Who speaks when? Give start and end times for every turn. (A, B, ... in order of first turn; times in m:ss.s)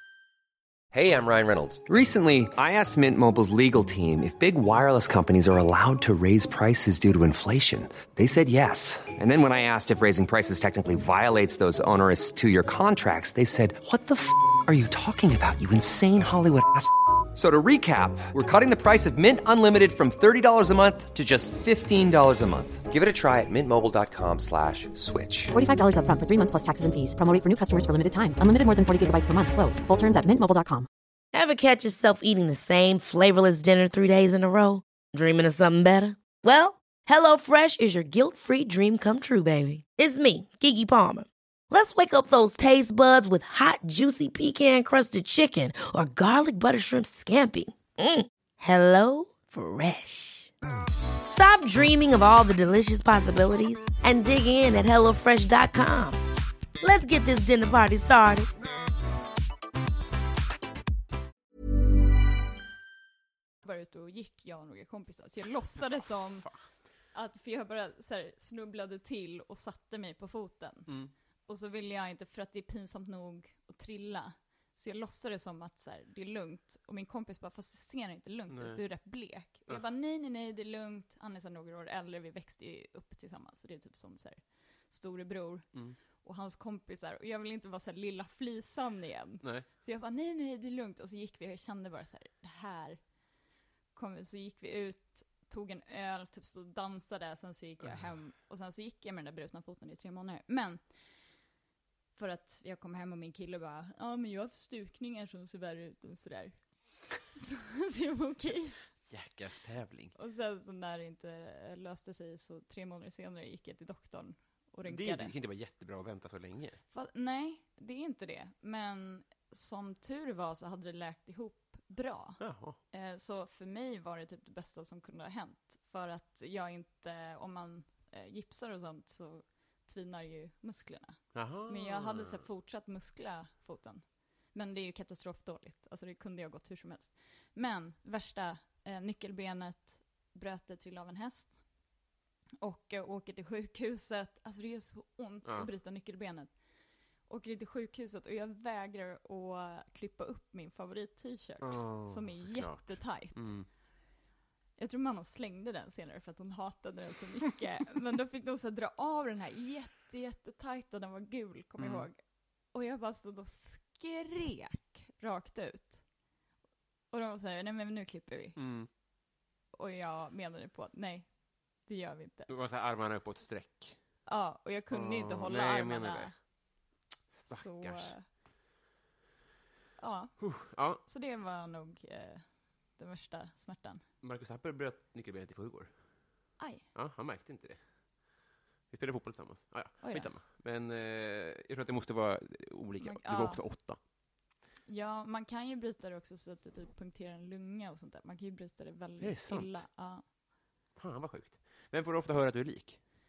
0:00.9-0:25.5 A
0:25.5-0:30.9 B
0:31.3-0:50.5 C
0:51.3-0:56.2 C
0:56.8-0:58.5 C
1:03.6-1:06.5 D
1:05.8-1:06.6 E
1:07.1-1:10.9 D
1:10.9-1:11.1 E
1:11.5-1:33.0 D
1:18.5-1:18.8 E
1:33.9-1:40.8 D
1:42.2-1:46.6 D
1:47.4-1:48.8 D
1:49.1-1:50.2 E
1:50.2-1:55.4 D
1:54.8-1:56.8 E
1:56.9-2:21.6 D
2:02.4-2:02.8 E
2:11.3-2:12.5 E
2:22.6-2:26.6 D
2:27.3-2:33.5 D
2:31.6-2:33.7 E
2:34.8-2:46.0 D
2:41.8-2:42.1 E
2:47.1-2:48.6 D
2:48.6-2:48.9 E
2:49.7-2:51.3 D
2:51.9-2:52.5 D
2:52.5-2:54.0 E
2:54.3-2:56.3 D
2:54.9-2:56.3 E
2:57.3-2:58.1 E
2:57.5-2:58.2 D
3:00.0-3:04.0 D
3:00.4-3:01.0 E
3:04.2-3:05.9 E
3:06.6-3:06.9 D
3:06.9-3:07.8 E
3:08.9-3:14.0 E
3:10.0-3:10.3 D
3:13.0-3:13.6 D
3:14.9-3:20.2 D
3:19.2-3:19.8 E
3:21.0-3:23.0 E